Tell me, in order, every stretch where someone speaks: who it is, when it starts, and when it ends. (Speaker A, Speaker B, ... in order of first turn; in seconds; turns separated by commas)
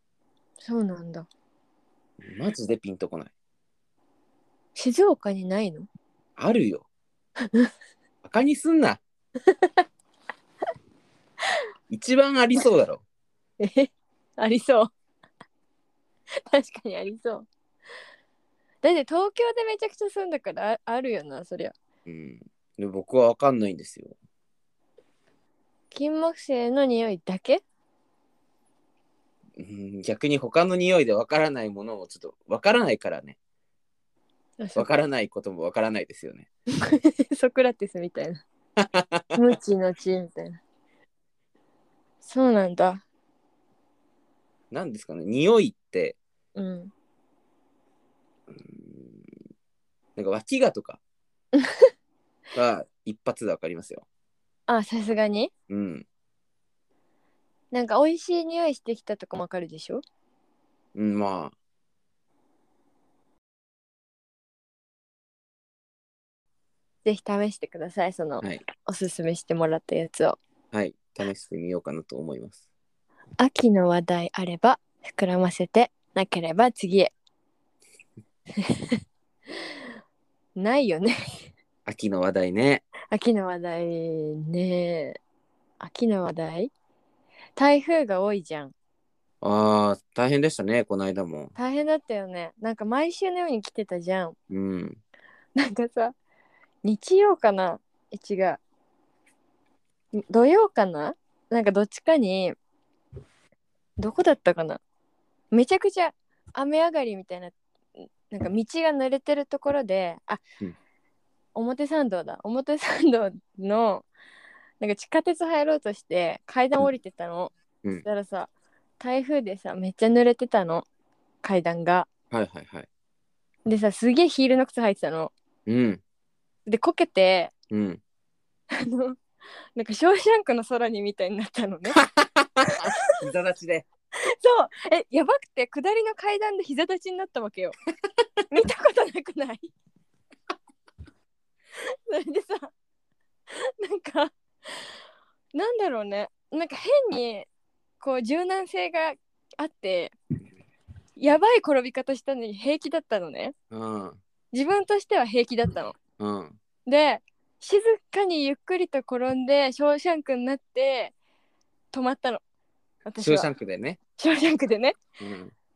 Speaker A: 0.6-1.3, Speaker B: 2.2-3.3, Speaker A: 4.8-5.9, Speaker B: 6.4-6.9, Speaker B: 8.2-9.0, Speaker A: 9.4-9.8, Speaker B: 11.9-13.0, Speaker A: 13.6-14.9, Speaker A: 16.5-17.5, Speaker A: 18.8-21.7, Speaker B: 22.1-24.1, Speaker A: 25.9-27.6, Speaker B: 29.6-33.4, Speaker A: 34.6-34.9, Speaker B: 34.8-36.5, Speaker A: 36.8-38.4, Speaker B: 38.8-39.4, Speaker A: 39.3-40.6, Speaker A: 42.2-43.0, Speaker B: 44.7-46.2, Speaker A: 46.5-46.9, Speaker B: 48.5-49.2, Speaker B: 50.2-51.0, Speaker A: 51.6-51.9, Speaker B: 52.5-54.1, Speaker A: 54.7-55.5, Speaker B: 55.7-56.1, Speaker A: 57.7-60.0, Speaker B: 60.9-61.5, Speaker A: 67.0-70.4, Speaker B: 70.7-72.6, Speaker A: 73.4-77.1, Speaker A: 78.5-79.0, Speaker A: 80.6-81.4, Speaker B: 81.8-82.8, Speaker A: 83.1-85.2, Speaker A: 85.8-86.7, Speaker A: 87.6-88.7, Speaker B: 89.4-91.5, Speaker A: 91.6-94.3, Speaker B: 94.5-95.0, Speaker A: 95.6-96.2, Speaker A: 96.8-98.6, Speaker A: 100.1-102.6, Speaker A: 104.0-104.8, Speaker A: 105.5-107.6, Speaker A: 108.3-110.4, Speaker A: 111.5-114.1, Speaker A: 114.8-120.9, Speaker A: 121.4-122.1, Speaker B: 122.3-122.9, Speaker A: 123.7-125.3, Speaker B: 125.7-126.0, Speaker A: 126.7-127.5, Speaker B: 127.7-128.0, Speaker A: 128.7-129.2, Speaker A: 129.8-132.0, Speaker B: 131.9-133.9, Speaker A: 134.2-137.8, Speaker A: 138.5-139.7, Speaker A: 141.8-142.7, Speaker A: 143.5-144.9, Speaker A: 145.5-147.5, Speaker A: 148.0-150.1, Speaker A: 151.2-153.5, Speaker B: 153.7-154.2, Speaker A: 154.5-155.9, Speaker B: 156.2-156.6, Speaker A: 156.9-161.1, Speaker A: 161.9-162.4, Speaker A: 163.1-163.5, Speaker B: 163.2-164.0, Speaker A: 164.2-165.0, Speaker B: 165.2-165.5